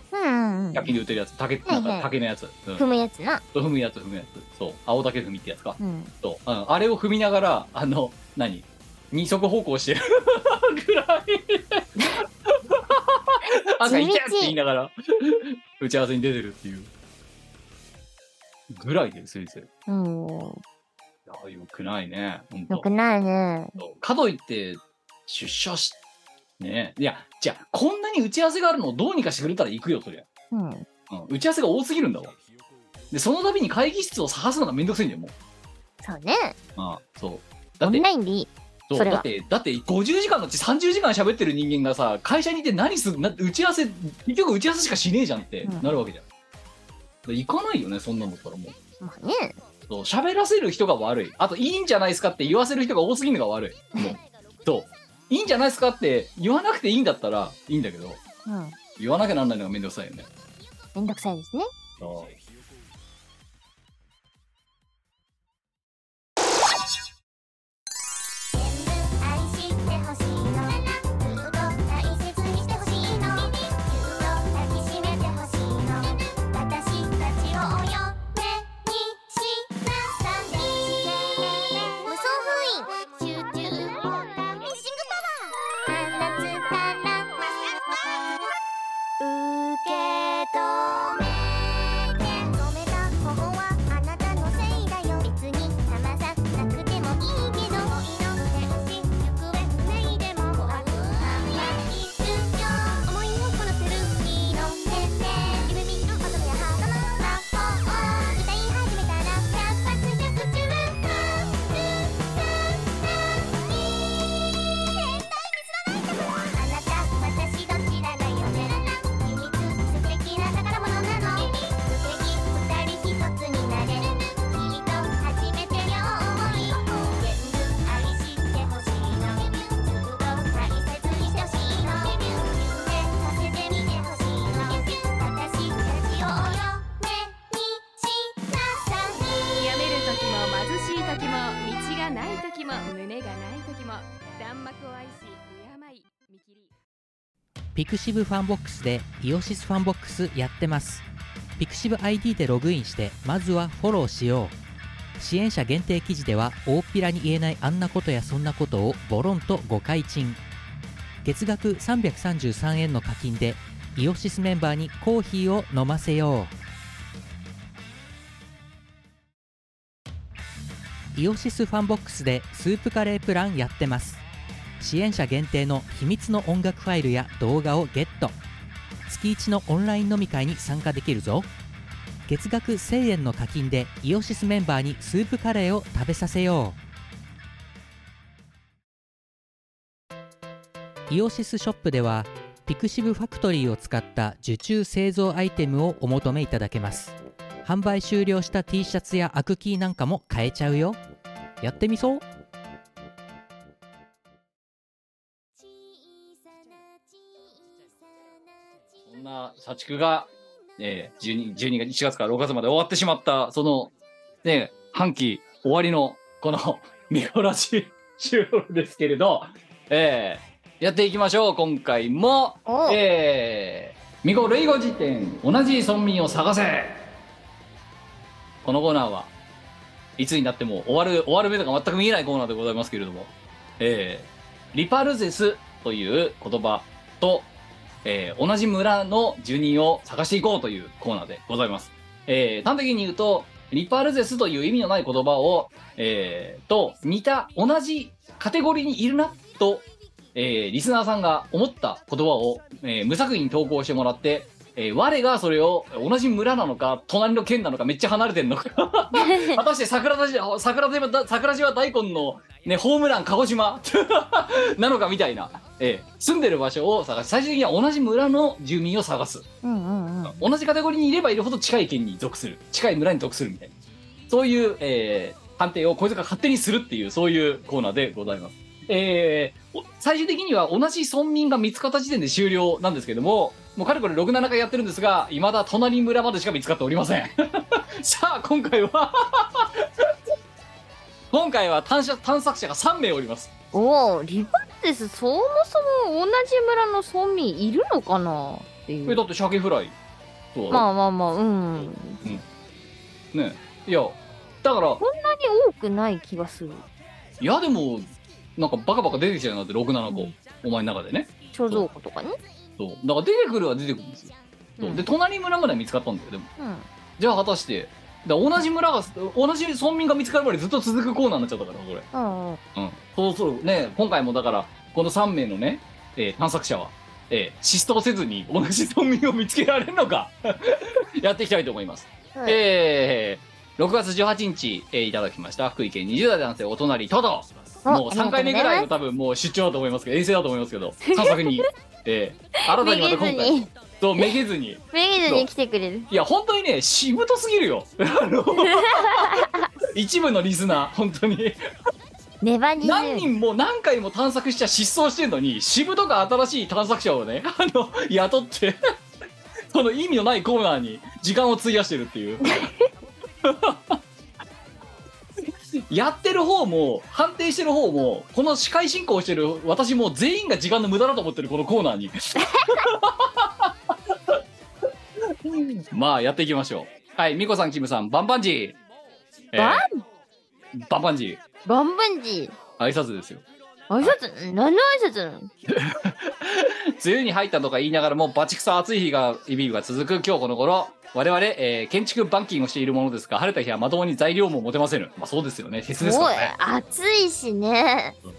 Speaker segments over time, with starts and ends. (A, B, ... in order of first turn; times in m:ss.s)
0:00.1-0:01.0 A
0:00.7-0:02.8 B
0:01.7-0:02.1 A
0:02.8-0:03.4 A
0:03.5-0:16.9 B
0:05.8-0:06.1 A
0:13.8-0:14.6 A
0:18.7-0:19.7 B
0:19.9-0:20.6 A
0:21.3-0:22.9 B
0:22.7-0:23.8 A
0:23.8-0:26.0 B
0:26.6-0:30.3 B
0:30.5-0:30.9 A
0:31.1-0:32.3 B
0:33.1-0:35.3 B
0:36.0-0:36.6 A
0:36.8-0:38.0 B
0:37.8-0:39.3 A
0:38.9-0:46.2 B
0:47.2-0:48.8 B
0:49.0-0:49.6 A
0:49.9-0:58.2 B
0:58.5-0:58.8 A
0:59.0-1:00.3 B
1:01.0-1:01.7 A
1:02.0-1:02.4 B
1:08.5-1:28.4 C
1:29.2-2:19.8 C
2:19.6-2:26.7 D
2:27.8-2:31.0 E
2:31.6-2:34.6 E
2:35.2-2:40.4 E
2:41.2-2:46.5 E
2:51.1-2:54.2 E
2:54.8-2:58.4 E
2:59.1-3:01.5 E
3:02.3-3:06.8 E
3:11.1-3:21.0 E
3:21.6-3:22.2 E
3:29.1-3:33.9 B
3:34.4-3:47.0 B
3:42.7-3:43.0 A
3:48.6-3:49.3 B
3:50.2-3:57.5 B
3:58.0-4:29.4 B
4:19.1-4:19.6 A
4:29.6-4:30.4 A
4:30.3-4:33.7 B
4:34.3-4:50.2 B
4:51.3-4:53.5 B
4:53.7-4:59.2 A
4:59.1-5:00.0 B
5:00.5-5:00.9 B
5:00.7-5:02.2 A
5:01.8-5:02.4 B
5:03.3-5:05.0 B
5:05.0-5:06.8 A
5:07.4-5:11.9 B
5:10.1-5:10.3 A
5:11.5-5:12.4 A
5:12.8-5:16.5 B
5:14.8-5:15.0 A
5:16.6-5:16.9 A
5:17.2-5:22.1 B
5:22.1-5:22.6 A
5:22.8-5:45.5 B
5:32.3-5:32.6 A
5:37.8-5:38.9 A
5:41.1-5:41.7 A
5:42.6-5:44.3 A
5:44.9-5:46.1 A
5:46.1-5:51.6 B
5:48.6-5:49.7 A
5:52.4-5:53.3 A
5:52.8-5:58.8 B
5:59.7-6:02.5 B
6:02.4-6:02.9 A
6:03.4-6:04.0 B
6:05.8-6:14.4 B
6:12.5-6:12.8 A
6:15.3-6:18.8 B
6:19.5-6:19.9 B
6:19.6-6:20.0 A
6:20.7-6:21.4 B
6:21.6-6:22.6 A
6:22.8-6:23.4 B
6:23.9-6:25.5 A
6:25.7-6:36.5 B
6:36.0-6:38.2 A